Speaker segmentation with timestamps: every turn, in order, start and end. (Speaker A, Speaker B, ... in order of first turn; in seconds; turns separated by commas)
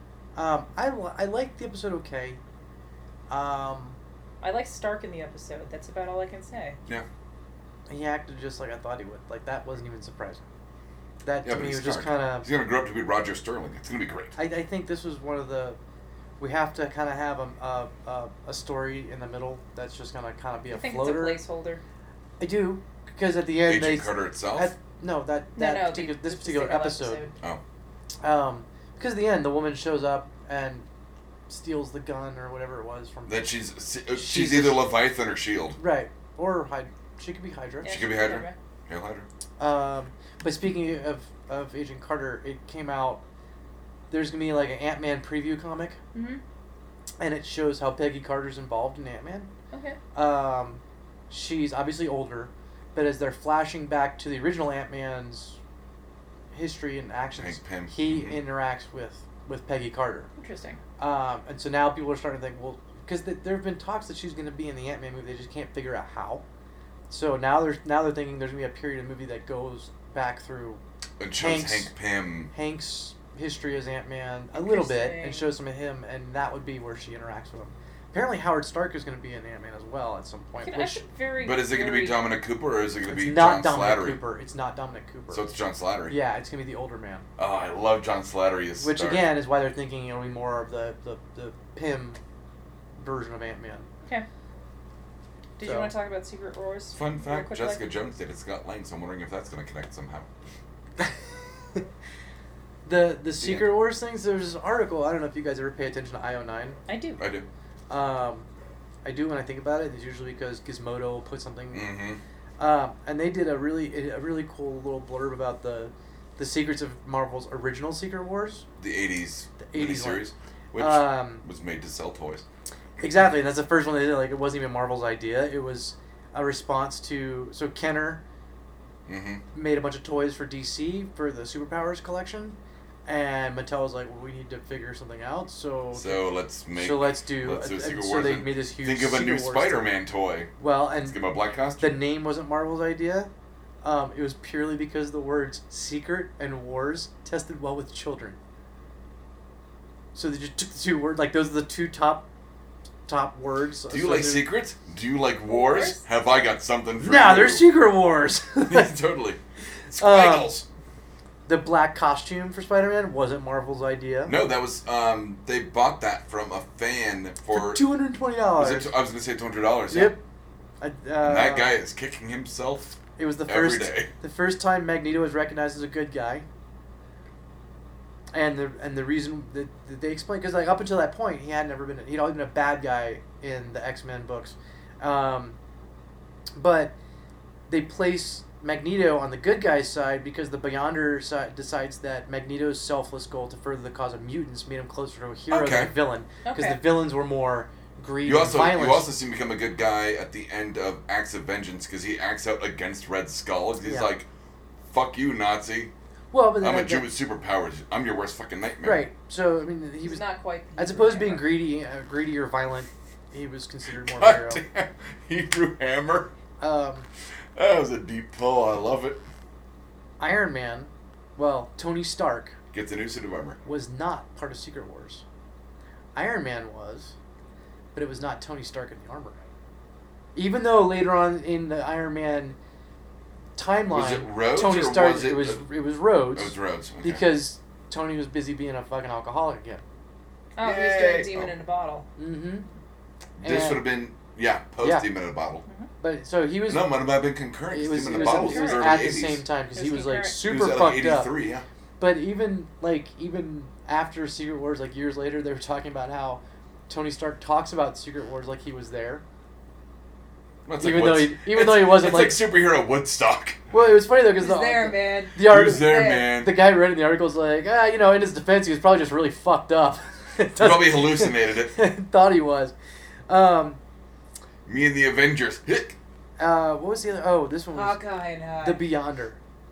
Speaker A: 0.3-2.4, Speaker A: 3.3-4.0, Speaker B: 4.4-6.8, Speaker A: 7.9-10.4, Speaker A: 11.2-12.5, Speaker C: 11.4-14.3, Speaker A: 14.3-15.8, Speaker A: 16.4-21.4, Speaker B: 20.7-21.8, Speaker A: 22.4-27.2, Speaker C: 23.6-24.7, Speaker B: 25.5-27.3, Speaker A: 28.2-30.9, Speaker A: 31.5-33.4, Speaker C: 33.2-35.8, Speaker A: 34.1-34.8, Speaker A: 35.8-38.1, Speaker B: 37.8-38.5, Speaker C: 37.8-39.3, Speaker A: 39.6-43.2, Speaker A: 44.1-46.0, Speaker B: 46.1-46.4, Speaker A: 47.2-49.5, Speaker B: 49.7-50.0, Speaker A: 50.1-55.6, Speaker A: 56.5-60.3, Speaker C: 57.4-58.4, Speaker B: 60.4-60.8, Speaker A: 61.0-66.4, Speaker A: 67.1-70.8, Speaker C: 71.2-72.5, Speaker A: 71.4-71.9, Speaker A: 72.5-81.0, Speaker B: 74.5-75.5, Speaker B: 80.6-82.2, Speaker C: 81.4-84.2, Speaker A: 83.1-85.4, Speaker C: 85.3-86.2, Speaker A: 86.1-87.2, Speaker C: 87.4-89.3, Speaker A: 88.8-92.2, Speaker A: 93.0-93.9, Speaker B: 95.6-97.8, Speaker A: 95.6-95.9, Speaker C: 96.9-100.3, Speaker A: 102.8-106.8, Speaker C: 103.4-103.7, Speaker B: 106.9-107.2, Speaker C: 107.2-107.5, Speaker A: 107.9-108.5, Speaker A: 109.0-111.9, Speaker C: 111.7-112.2, Speaker A: 112.6-118.7, Speaker C: 118.8-122.4, Speaker A: 119.6-121.4, Speaker A: 123.0-128.2, Speaker C: 129.1-129.4, Speaker A: 129.5-139.9, Speaker C: 135.9-140.5, Speaker A: 140.6-141.2, Speaker C: 141.0-142.0, Speaker A: 141.8-143.3, Speaker A: 143.8-148.3, Speaker A: 150.1-152.2, Speaker A: 153.1-154.5, Speaker C: 153.9-157.6, Speaker B: 155.5-156.0, Speaker A: 157.0-158.9, Speaker C: 158.7-160.7, Speaker A: 160.0-160.5, Speaker A: 161.4-164.3, Speaker C: 164.2-167.8, Speaker A: 167.5-168.9, Speaker C: 168.6-170.2, Speaker A: 169.9-170.2, Speaker A: 170.8-171.7, Speaker C: 171.2-174.1, Speaker A: 173.2-176.4, Speaker A: 178.3-185.6, Speaker A: 186.5-186.9, Speaker A: 187.7-199.1, Speaker C: 195.5-195.9, Speaker B: 196.4-196.8, Speaker C: 198.2-204.3, Speaker A: 203.8-204.1, Speaker C: 204.9-205.9, Speaker A: 206.3-207.1, Speaker C: 206.6-209.1, Speaker A: 208.8-210.2, Speaker B: 210.0-211.6, Speaker A: 210.8-214.6, Speaker C: 213.9-216.3, Speaker A: 216.6-217.1, Speaker C: 217.5-219.2, Speaker A: 220.2-222.6, Speaker C: 222.7-223.6, Speaker A: 223.6-225.2, Speaker A: 226.1-227.1, Speaker A: 227.9-229.4, Speaker A: 230.3-232.6, Speaker A: 233.6-239.8, Speaker C: 233.9-235.6, Speaker C: 236.3-237.2, Speaker B: 240.6-242.1, Speaker C: 240.6-241.5, Speaker A: 242.2-242.7, Speaker A: 243.4-243.9, Speaker C: 243.4-245.6, Speaker A: 244.8-245.1, Speaker A: 246.0-246.9, Speaker C: 246.7-249.4, Speaker A: 247.7-251.3, Speaker B: 248.1-249.0, Speaker B: 249.7-250.4, Speaker C: 250.4-251.7, Speaker A: 252.0-259.2, Speaker C: 260.6-263.6, Speaker A: 260.8-262.4, Speaker A: 263.7-272.7, Speaker B: 264.4-266.3, Speaker C: 265.4-266.6, Speaker C: 270.6-271.8, Speaker A: 273.3-273.8, Speaker C: 274.6-275.9, Speaker A: 276.4-278.0, Speaker B: 277.7-278.8, Speaker A: 278.6-279.4